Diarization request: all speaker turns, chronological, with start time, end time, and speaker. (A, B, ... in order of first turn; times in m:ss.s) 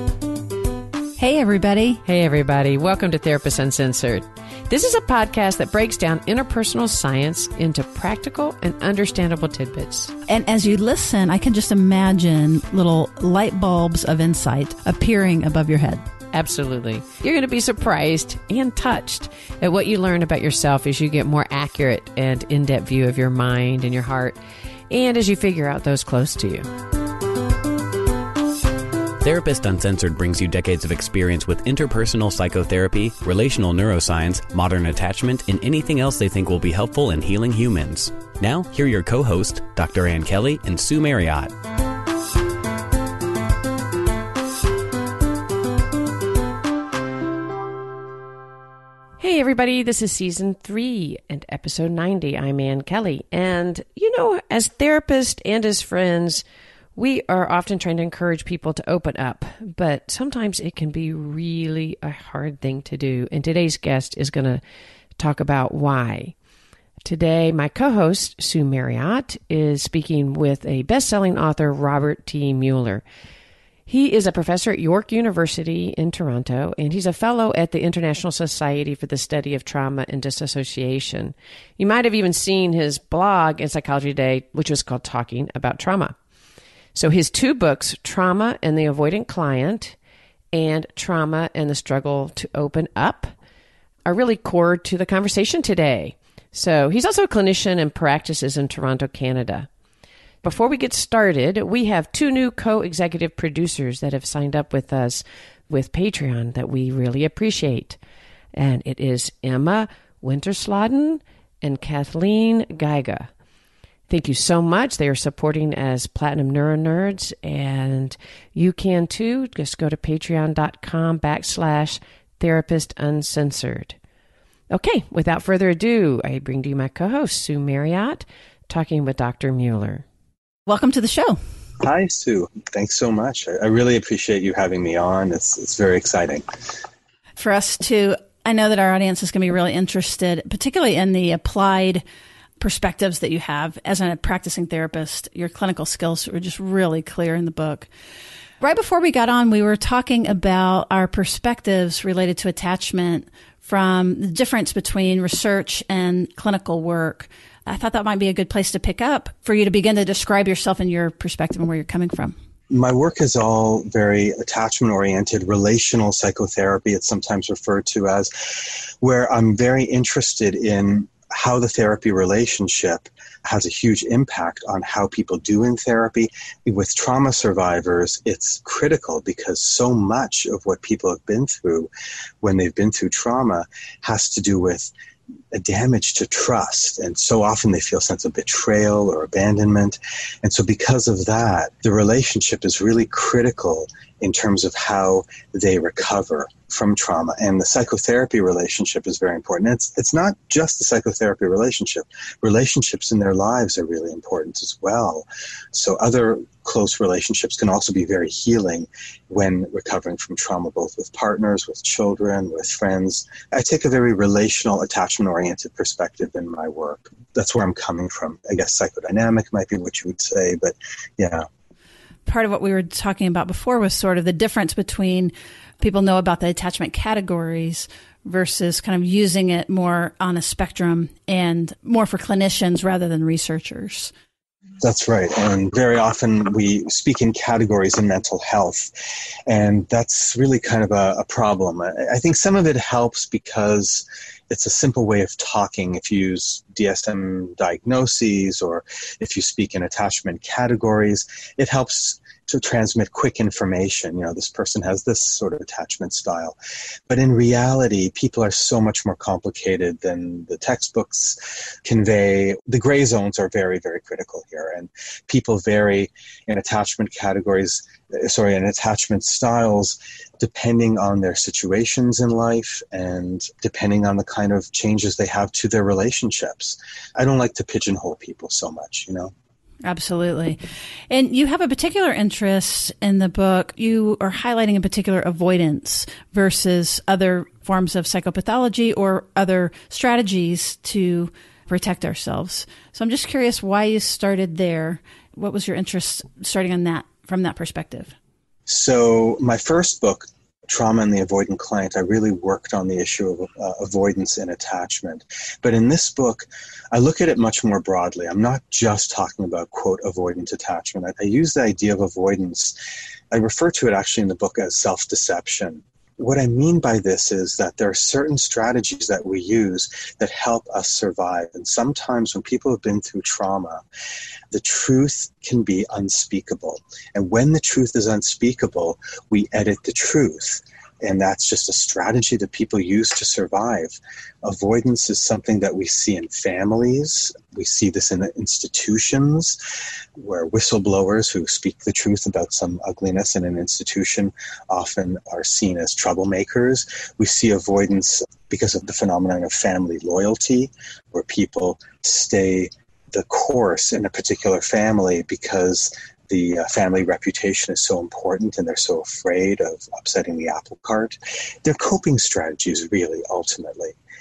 0:01.2-0:02.0 A
0:02.0-0:10.2 B
0:10.3-0:16.0 A
0:16.3-0:24.4 B
0:24.9-0:26.7 B
0:29.2-0:41.5 C
0:49.2-0:56.4 B
0:57.0-1:04.6 B
1:05.2-1:06.4 B
1:07.0-1:13.0 B
1:13.9-1:26.2 B
1:27.0-1:30.0 B
1:30.5-1:33.3 B
1:34.0-1:39.7 B
1:40.4-1:48.0 B
1:48.6-1:53.3 B
1:54.1-2:04.0 B
2:04.7-2:10.0 B
2:10.7-2:11.4 A
2:11.8-2:16.5 D
2:17.4-2:22.0 A
2:22.6-2:27.9 A
2:28.6-2:42.4 A
2:42.7-3:01.9 D
3:02.4-3:04.9 D
3:05.5-3:41.5 D
3:42.3-3:54.1 A
3:54.8-3:58.9 D
3:59.5-4:16.6 D
4:17.1-4:39.3 D
4:39.8-4:40.6 A
4:41.1-4:58.1 A
4:58.7-5:12.8 D
5:13.3-5:23.8 D
5:24.5-5:39.6 D
5:40.2-6:04.0 D